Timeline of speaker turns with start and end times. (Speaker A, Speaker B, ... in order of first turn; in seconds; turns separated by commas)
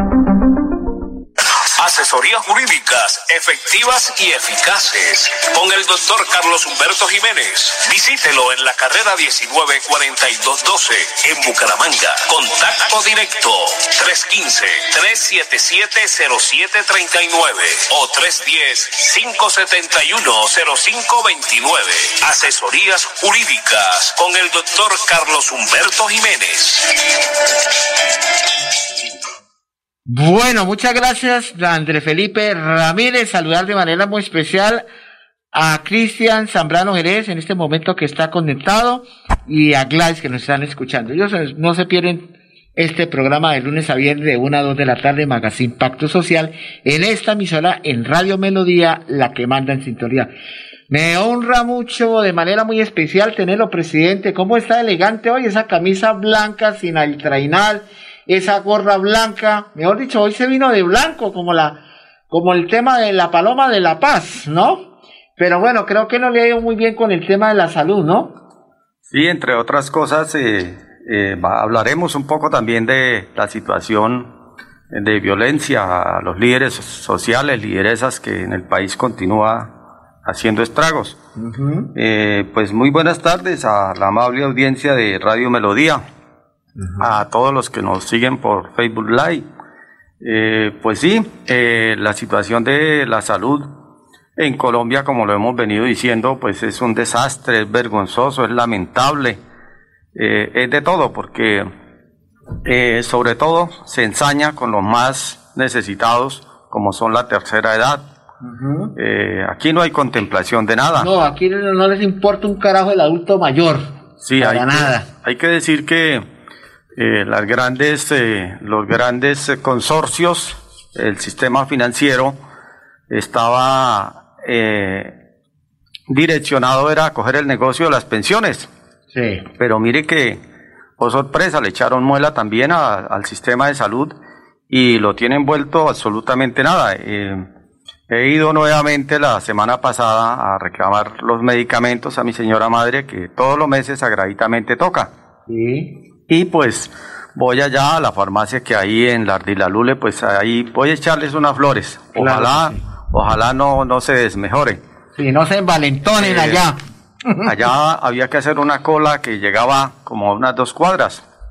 Speaker A: 1.8-26.9, Speaker B: 30.1-34.8, Speaker B: 35.5-50.3, Speaker B: 50.9-68.3, Speaker C: 69.1-74.3, Speaker C: 74.9-79.7, Speaker C: 80.2-81.2, Speaker B: 81.4-81.9, Speaker C: 81.9-86.0, Speaker C: 87.0-89.4, Speaker C: 90.2-93.7, Speaker C: 94.4-99.4, Speaker C: 100.1-101.7, Speaker C: 102.6-108.0, Speaker B: 108.4-108.9, Speaker C: 109.0-111.1, Speaker B: 111.0-115.0, Speaker C: 114.2-116.2, Speaker C: 117.0-122.3, Speaker C: 123.1-125.1, Speaker C: 126.1-128.7, Speaker B: 129.1-129.4, Speaker C: 129.6-130.4, Speaker C: 131.0-134.1, Speaker C: 134.7-137.5, Speaker C: 138.1-145.1, Speaker B: 145.5-145.9, Speaker C: 146.3-154.8, Speaker B: 152.2-152.8, Speaker B: 155.1-157.5, Speaker C: 156.2-156.6, Speaker C: 157.4-161.2